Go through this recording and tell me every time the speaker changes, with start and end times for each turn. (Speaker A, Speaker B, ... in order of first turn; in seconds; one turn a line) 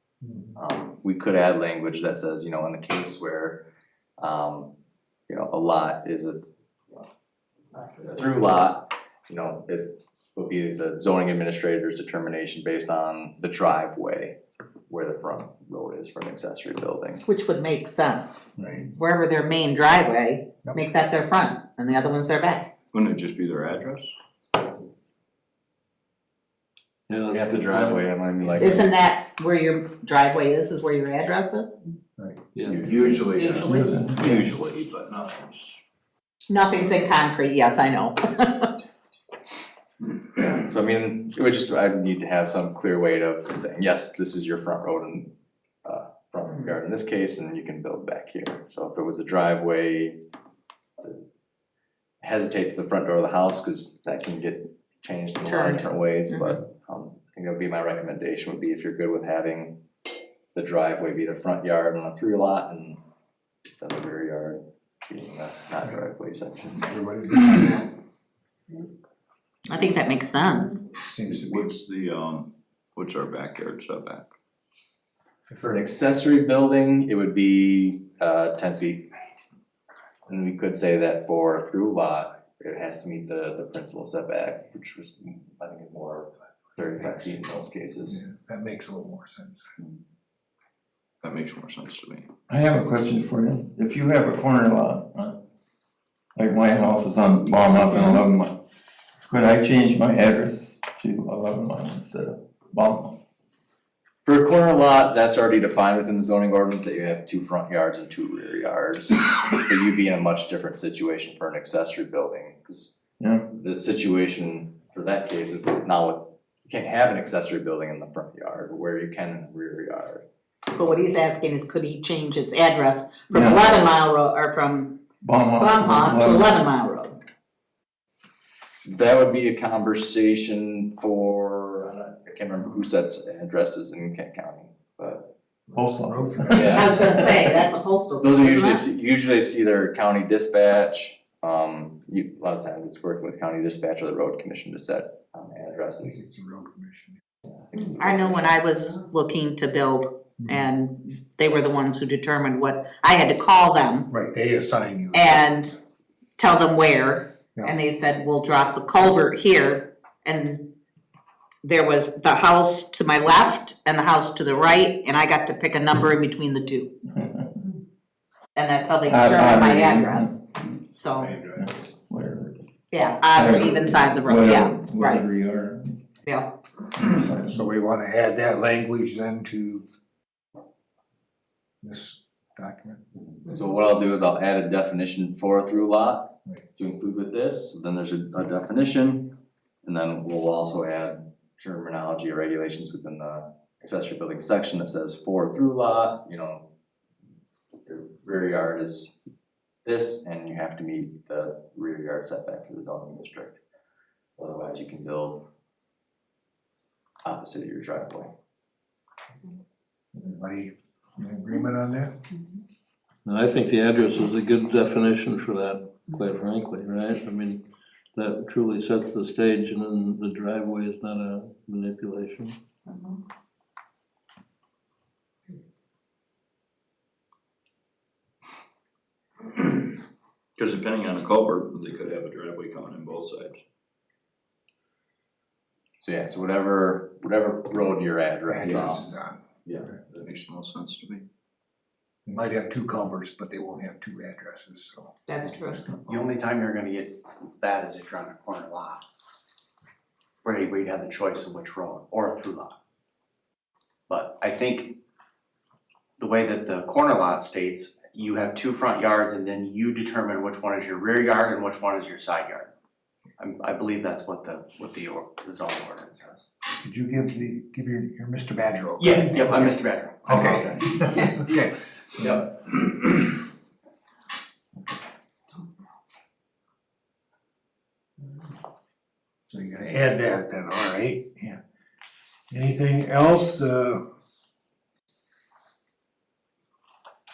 Speaker A: 0.6-3.6
Speaker A: 4.2-4.7
Speaker A: 5.3-6.4
Speaker A: 7.8-14.4
Speaker A: 14.9-17.2
Speaker B: 17.3-22.7
Speaker C: 18.6-18.9
Speaker D: 22.9-24.1
Speaker E: 27.1-28.6
Speaker A: 27.3-28.9
Speaker B: 28.6-31.8
Speaker E: 32.5-32.9
Speaker A: 32.6-33.2
Speaker D: 32.8-35.8
Speaker B: 33.3-34.5
Speaker F: 33.7-34.3
Speaker B: 36.5-38.7
Speaker A: 40.4-45.3
Speaker A: 45.9-50.2
Speaker A: 52.2-59.8
Speaker B: 55.4-56.6
Speaker A: 60.5-63.0
Speaker A: 63.8-66.9
Speaker C: 66.8-67.9
Speaker B: 69.7-70.8
Speaker C: 71.0-71.8
Speaker D: 71.3-74.3
Speaker A: 75.5-79.1
Speaker A: 80.3-88.2
Speaker C: 87.0-87.4
Speaker C: 88.1-89.7
Speaker D: 91.2-92.3
Speaker F: 92.5-95.4
Speaker F: 96.4-98.6
Speaker F: 99.2-103.2
Speaker A: 104.2-113.0
Speaker F: 113.2-113.5
Speaker A: 113.5-120.2
Speaker B: 120.7-125.0
Speaker F: 123.3-123.8
Speaker F: 125.2-126.7
Speaker B: 125.6-127.2
Speaker A: 128.8-135.3
Speaker C: 135.7-137.2
Speaker F: 135.8-137.4
Speaker A: 136.5-137.2
Speaker B: 136.6-138.8
Speaker A: 138.2-146.2
Speaker C: 146.0-147.2
Speaker A: 147.5-148.6
Speaker B: 148.0-154.1
Speaker C: 154.1-155.5
Speaker B: 155.1-155.7
Speaker B: 156.4-160.7
Speaker B: 161.6-166.9
Speaker F: 167.1-167.5
Speaker B: 168.6-170.4
Speaker F: 169.1-170.4
Speaker B: 170.9-171.3
Speaker C: 171.2-171.7
Speaker F: 171.5-172.7
Speaker B: 172.9-175.2
Speaker F: 173.3-176.0
Speaker B: 176.3-176.5
Speaker F: 176.9-177.7
Speaker C: 177.4-179.8
Speaker C: 181.8-183.0
Speaker A: 183.3-196.7
Speaker A: 197.9-199.1
Speaker A: 199.8-203.6
Speaker A: 204.4-205.4
Speaker A: 207.2-208.3
Speaker C: 210.2-212.1
Speaker E: 213.2-217.6
Speaker E: 218.1-222.6
Speaker D: 230.6-233.6
Speaker A: 236.0-239.0
Speaker C: 238.5-239.4
Speaker D: 239.7-241.2
Speaker C: 242.3-246.3
Speaker B: 245.3-245.8
Speaker G: 246.1-249.0
Speaker G: 250.4-252.8
Speaker G: 254.1-255.0
Speaker G: 256.2-262.7
Speaker G: 263.4-266.5
Speaker C: 266.8-272.4
Speaker G: 269.0-270.6
Speaker A: 270.3-270.6
Speaker C: 279.5-281.6
Speaker C: 282.5-284.0